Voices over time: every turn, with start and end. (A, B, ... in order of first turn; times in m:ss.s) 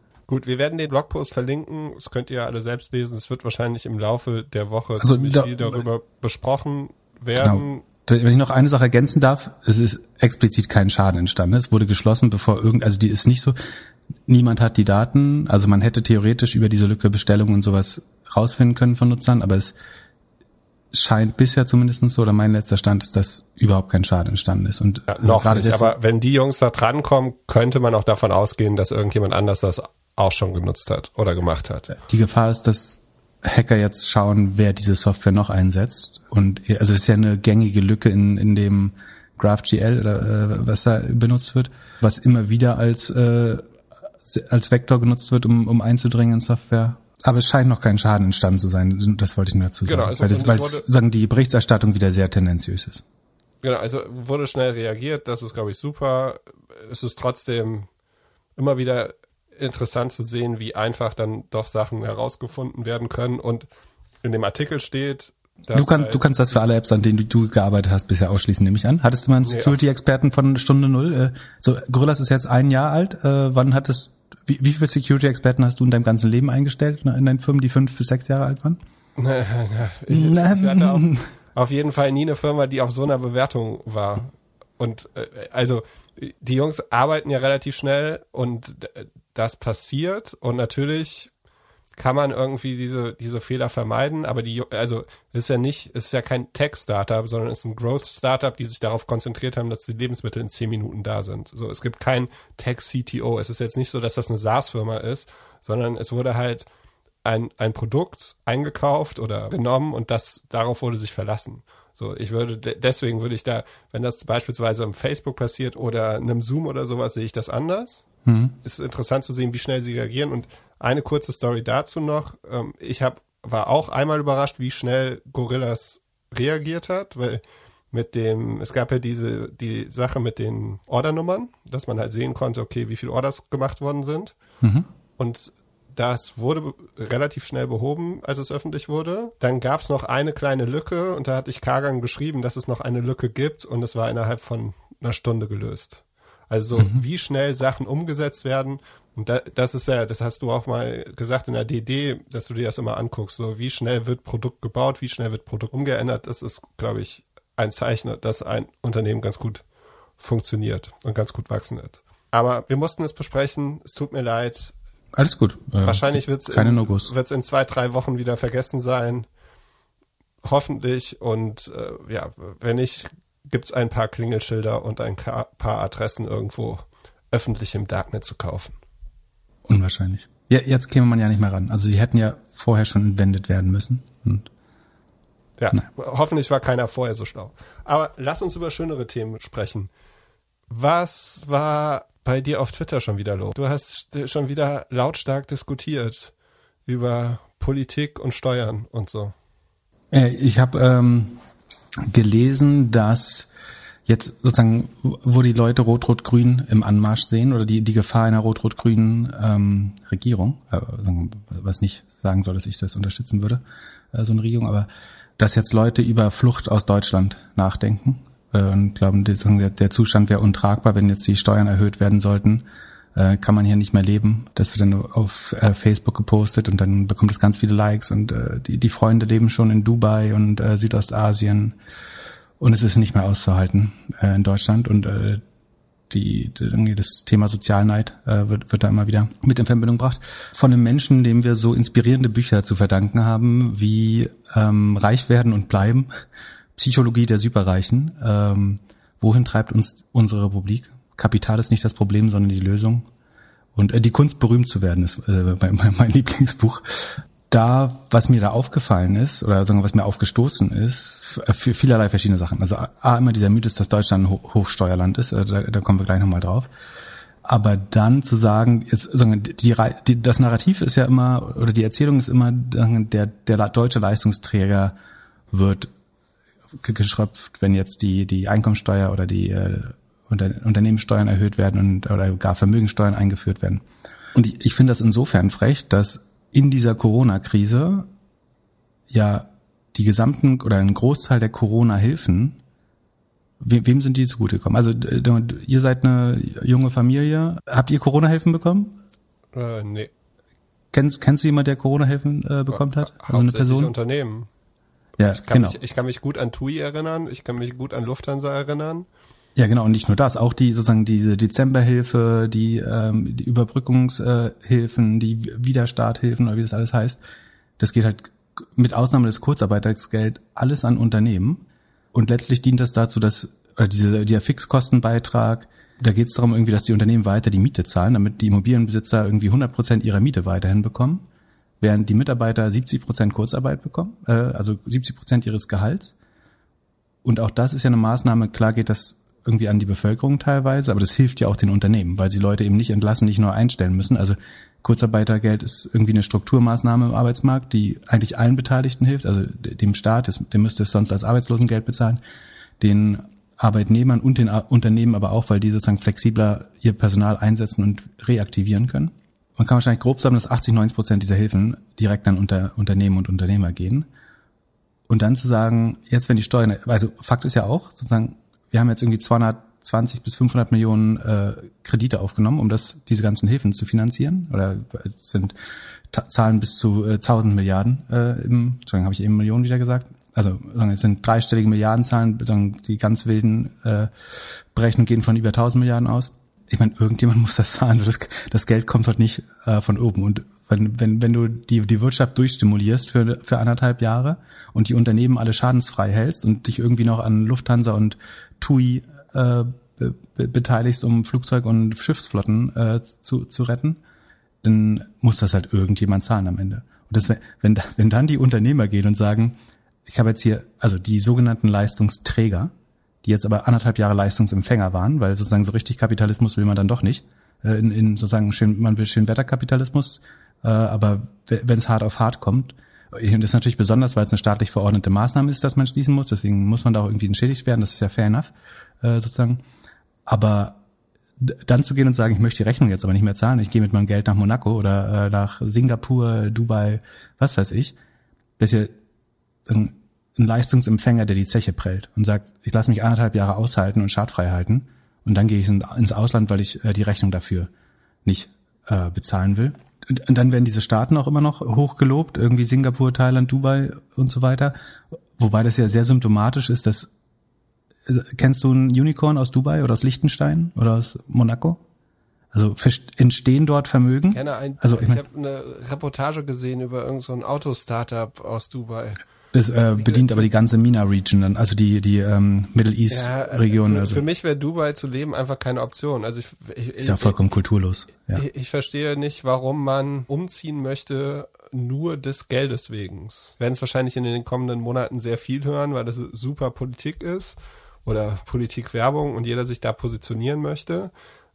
0:00.3-0:07.8 A
0:05.0-0:05.8 B
0:07.4-0:13.6 B
0:14.3-0:19.8 B
0:20.9-0:25.9 B
0:25.1-0:31.9 A
0:32.0-0:43.6 B
0:44.2-0:53.0 B
0:49.8-0:50.9 A
0:53.6-0:57.9 A
0:58.6-1:03.7 A
1:04.2-1:06.4 A
1:05.7-1:18.8 B
1:09.4-1:09.8 A
1:19.2-1:31.3 A
1:20.1-1:21.3 B
1:32.0-1:46.7 A
1:47.2-1:58.0 A
1:58.3-1:58.6 B
1:58.6-2:14.4 A
2:14.6-2:14.9 B
2:15.2-2:39.6 A
2:26.8-2:27.0 B
2:40.2-2:44.7 A
2:45.2-2:47.1 B
2:45.8-2:49.3 A
2:50.4-2:58.8 A
2:59.7-3:04.5 B
3:05.6-3:09.9 A
3:10.7-3:16.3 A
3:16.9-3:19.3 A
3:20.1-3:21.4 B
3:22.0-3:23.5 B
3:24.1-3:33.6 B
3:34.1-3:42.6 B
3:43.2-3:51.8 B
3:52.6-3:55.4 B
3:56.1-4:06.1 B
4:06.8-4:13.0 B
4:13.8-4:26.7 B
4:27.4-4:35.0 B
4:35.5-4:35.9 B
4:36.8-4:43.8 B
4:44.3-4:48.1 B
4:49.1-4:52.6 B
4:53.6-4:59.0 B
4:59.5-5:00.1 A
5:00.9-5:03.9 B
5:02.7-5:04.5 A
5:05.2-5:05.8 B
5:05.3-5:09.1 A
5:09.6-5:17.2 B
5:17.8-5:31.2 B
5:31.8-5:36.2 B
5:37.2-5:52.2 B
5:52.8-6:04.1 B
6:05.1-6:15.6 B
6:16.1-6:24.1 B
6:24.7-6:44.0 B
6:44.6-6:52.7 B
6:53.2-7:09.6 B
7:10.3-7:10.8 B
7:11.4-7:18.0 B
7:18.6-7:19.0 B
7:19.7-7:27.7 B
7:28.2-7:34.8 B
7:35.4-7:37.1 B
7:38.1-7:41.8 B
7:42.5-7:45.2 B
7:44.3-7:49.2 A
7:49.5-7:54.2 B
7:50.0-7:50.5 A
7:53.1-7:57.4 A
7:57.0-7:58.4 B
7:58.3-8:11.1 A